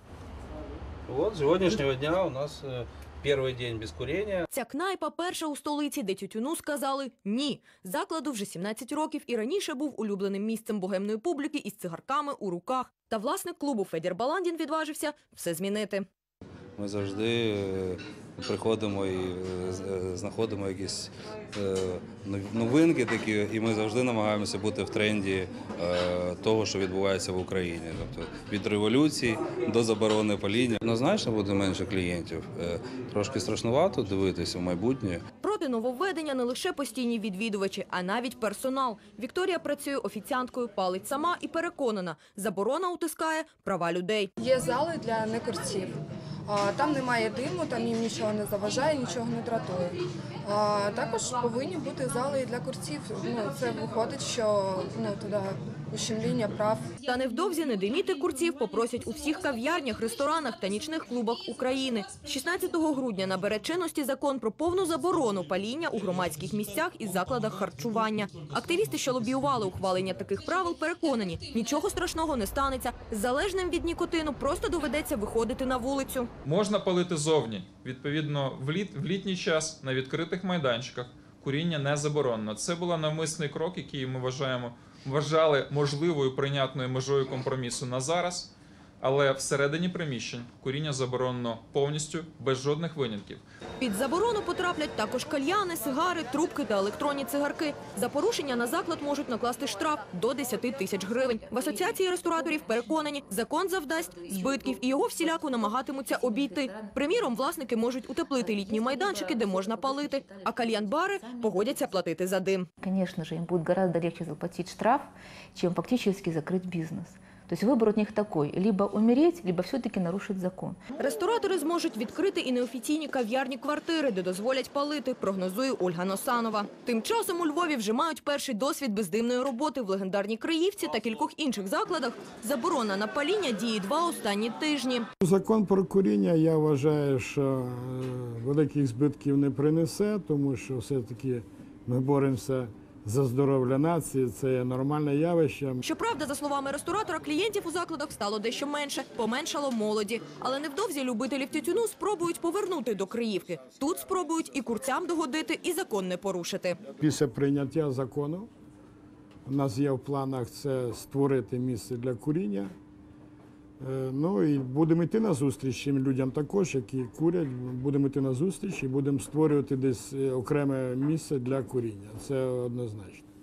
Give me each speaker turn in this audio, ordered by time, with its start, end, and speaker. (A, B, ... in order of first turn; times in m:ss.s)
0:01.1-0:04.5 A
0:04.5-0:16.1 B
0:16.8-0:35.2 A
0:35.4-0:44.3 B
0:44.4-0:56.9 C
0:57.1-1:16.3 B
1:16.4-1:33.4 D
1:33.8-1:52.7 B
1:46.7-1:46.9 E
1:48.9-1:49.4 E
1:50.1-1:50.4 E
1:52.8-2:00.8 E
2:01.0-2:15.1 B
2:15.2-2:25.8 F
2:25.8-2:36.8 B
2:37.0-2:38.5 F
2:39.5-2:42.7 F
2:43.8-2:53.2 F